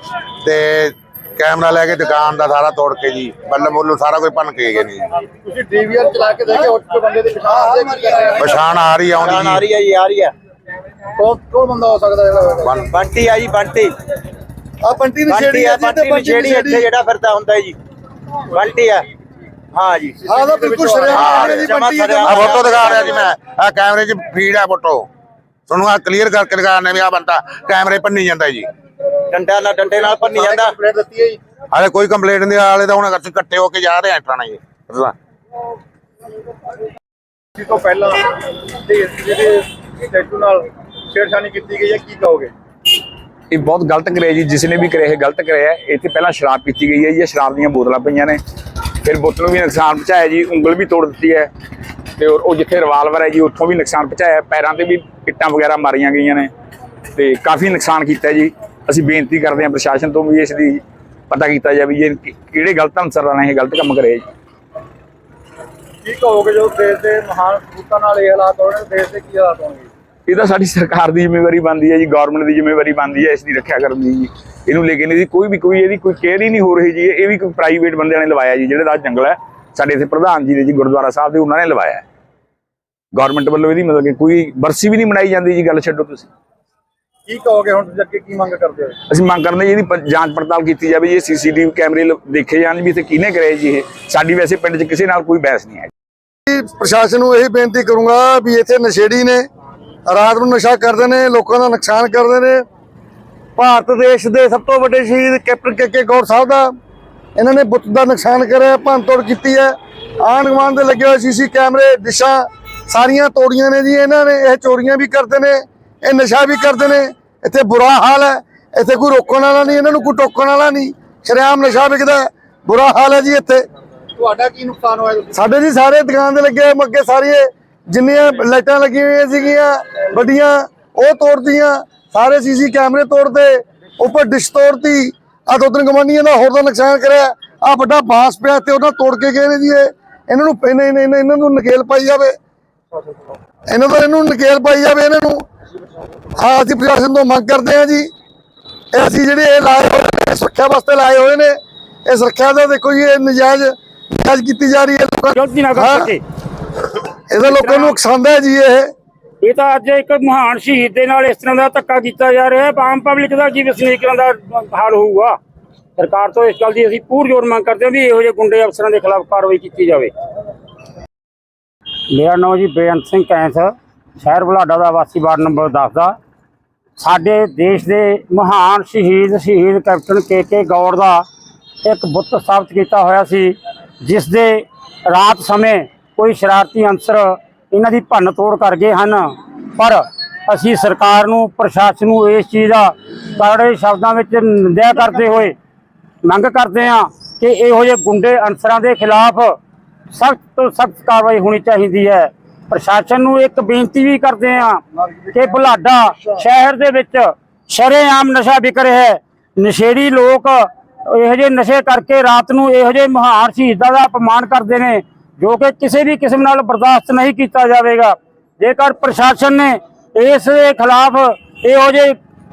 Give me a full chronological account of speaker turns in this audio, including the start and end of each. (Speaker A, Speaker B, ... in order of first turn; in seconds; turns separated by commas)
Speaker A: 0.4-5.0, Speaker B: 5.3-8.6, Speaker A: 8.4-9.7, Speaker C: 9.2-10.3, Speaker B: 11.2-12.8, Speaker C: 12.8-13.9, Speaker D: 14.8-16.9, Speaker C: 15.3-17.8, Speaker C: 18.5-19.1, Speaker C: 19.7-20.2, Speaker B: 20.2-21.7, Speaker D: 20.2-22.4, Speaker A: 21.1-21.6, Speaker C: 21.4-23.3, Speaker A: 22.2-25.1, Speaker A: 25.7-28.7, Speaker C: 29.3-30.8, Speaker B: 29.9-31.4, Speaker A: 31.7-35.1, Speaker B: 37.5-38.3, Speaker B: 38.8-42.5, Speaker E: 43.5-48.4, Speaker E: 49.0-51.5, Speaker E: 52.2-56.5, Speaker E: 57.1-64.3, Speaker B: 66.0-69.9, Speaker E: 70.3-82.0, Speaker E: 83.1-86.3, Speaker B: 87.3-89.0, Speaker E: 89.1-95.9, Speaker D: 96.5-99.4, Speaker D: 100.1-102.6, Speaker D: 103.5-106.7, Speaker D: 107.3-123.6, Speaker B: 124.2-125.3, Speaker D: 125.3-142.3, Speaker D: 143.7-145.4, Speaker D: 146.3-148.1, Speaker D: 148.9-156.1, Speaker F: 155.3-156.2, Speaker D: 157.3-158.9, Speaker F: 157.4-158.0, Speaker F: 159.4-165.4, Speaker F: 166.0-170.1, Speaker F: 172.1-176.2, Speaker F: 177.0-181.2, Speaker F: 181.8-195.5, Speaker F: 196.2-199.6, Speaker F: 200.1-222.2